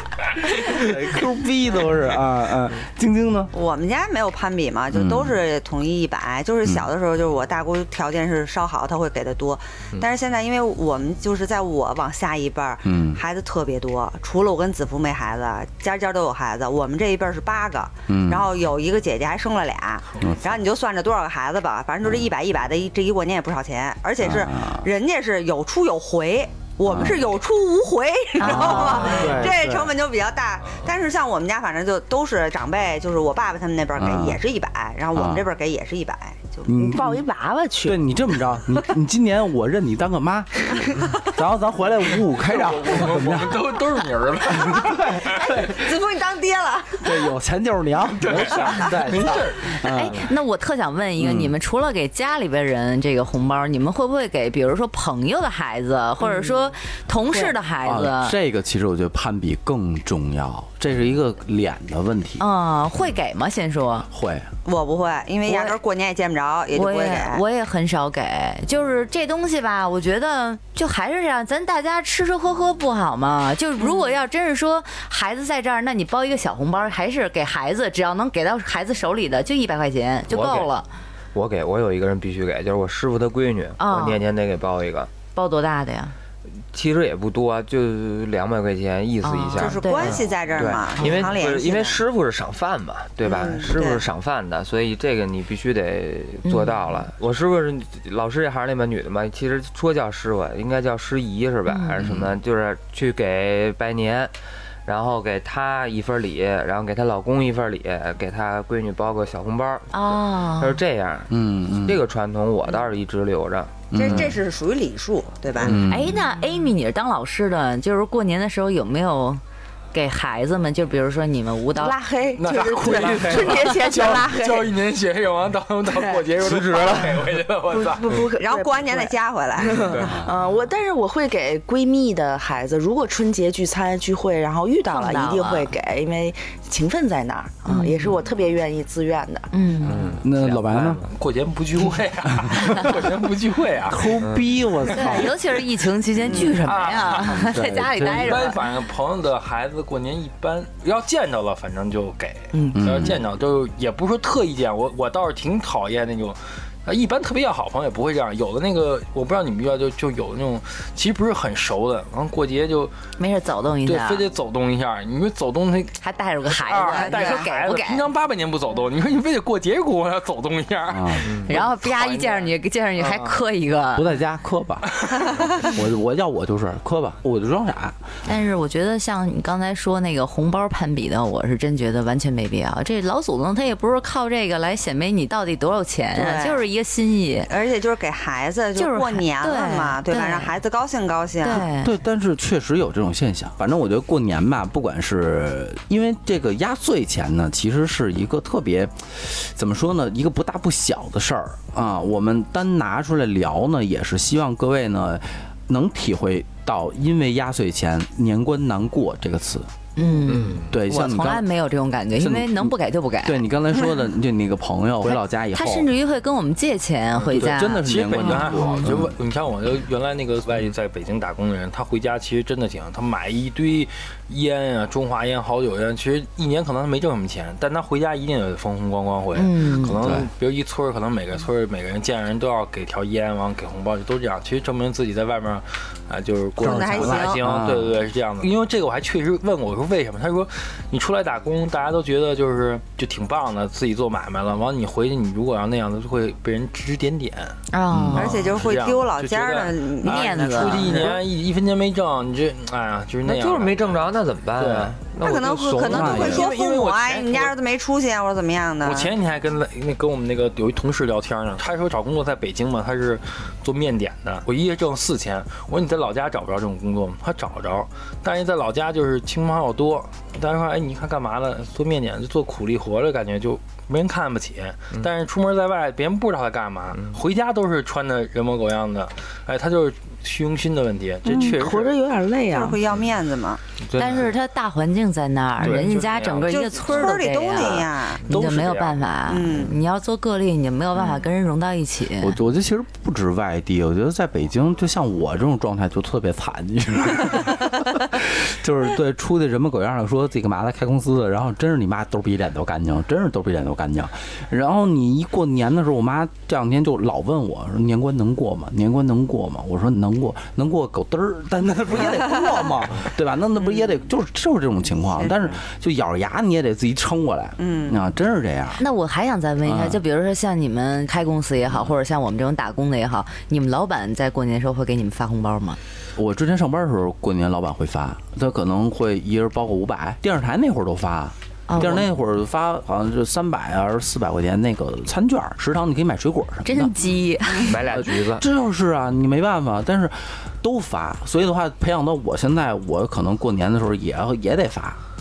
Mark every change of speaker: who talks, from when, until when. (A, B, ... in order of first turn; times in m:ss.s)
0:00.7-0:03.5 A
0:03.5-0:36.7 B
0:04.9-0:05.4 A
0:12.8-0:13.2 A
0:18.1-0:18.5 A
0:20.2-0:20.6 A
0:24.2-0:24.9 A
0:26.9-0:27.2 A
0:28.4-0:29.4 C
0:28.4-0:29.9 A
0:34.0-0:34.4 A
0:35.1-0:35.5 A
0:36.7-0:37.2 A
0:36.8-0:38.0 D
0:37.8-0:43.8 A
0:42.3-0:45.5 E
0:44.5-0:45.9 A
0:45.3-0:47.2 B
0:47.0-0:50.2 A
0:48.2-0:49.8 E
0:49.8-0:58.4 C
0:51.2-0:51.5 A
0:56.2-0:56.7 D
0:57.3-0:57.6 D
0:57.8-1:02.4 A
1:02.4-1:04.1 C
1:04.1-1:04.5 A
1:04.6-1:07.4 B
1:05.5-1:05.8 C
1:06.7-1:20.9 C
1:20.3-1:20.7 F
1:21.3-1:25.1 F
1:23.8-1:24.2 C
1:25.4-1:26.1 C
1:26.7-1:44.3 F
1:29.2-1:31.3 C
1:29.6-1:32.0 B
1:33.2-1:34.1 B
1:36.4-1:37.0 C
1:41.7-1:42.0 C
1:42.0-1:42.3 A
1:44.9-1:54.3 F
1:49.9-1:50.8 C
1:51.3-1:52.0 A
1:53.9-1:54.4 A
1:53.9-1:55.8 B
1:55.6-1:56.2 A
1:55.7-1:59.4 C
1:59.9-2:02.0 C
2:01.8-2:04.7 D
2:02.4-2:08.3 E
2:05.9-2:19.5 D
2:08.4-2:10.2 B
2:14.9-2:15.7 C
2:17.7-2:18.1 C
2:19.5-2:20.1 C
2:19.8-2:21.1 F
2:20.2-2:21.0 A
2:20.9-2:24.2 E
2:22.4-2:22.8 A
2:23.9-2:25.3 A
2:24.2-2:24.5 F
2:24.9-2:28.6 C
2:26.2-2:26.6 B
2:26.4-2:42.9 E
2:27.4-2:28.5 A
2:32.5-2:33.2 D
2:32.8-2:33.2 A
2:43.2-2:44.3 C
2:43.8-2:53.4 E
2:46.0-2:48.1 C
2:46.9-2:47.5 B
2:50.9-2:51.3 A
2:51.5-2:54.1 C
2:54.0-2:54.9 A
2:55.6-2:58.0 A
2:58.2-3:07.5 C
3:06.2-3:06.7 B
3:07.5-3:11.7 B
3:08.8-3:10.6 C
3:11.4-3:11.9 C
3:11.5-3:29.7 A
3:30.0-3:33.4 C
3:30.3-3:30.6 F
3:30.7-3:31.5 A
3:32.2-3:35.9 A
3:35.0-3:38.8 C
3:37.3-4:07.6 E
3:37.3-3:39.2 A
3:49.4-3:50.0 C
3:50.0-3:50.3 A
3:56.6-3:57.4 B
3:56.6-3:58.0 A
4:07.7-4:08.4 C
4:07.9-4:08.4 A
4:08.1-4:15.1 E
4:08.2-4:11.2 B
4:10.0-4:11.2 C
4:13.2-4:16.4 F
4:15.2-4:19.2 B
4:15.9-4:16.5 A
4:16.0-4:17.6 E
4:18.8-4:42.0 E
4:41.3-4:42.8 D
4:42.5-4:43.6 B
4:43.8-4:44.3 F
4:44.0-4:52.4 C
4:45.6-4:49.1 E
4:46.5-4:48.3 B
4:49.2-4:49.8 B
4:52.2-5:18.8 A
5:17.6-5:18.0 B
5:18.8-5:25.8 C
5:19.6-5:20.0 A
5:26.2-5:36.9 A
5:31.7-5:32.1 C
5:36.7-5:37.8 C
5:37.6-5:38.4 F
5:37.7-5:45.0 A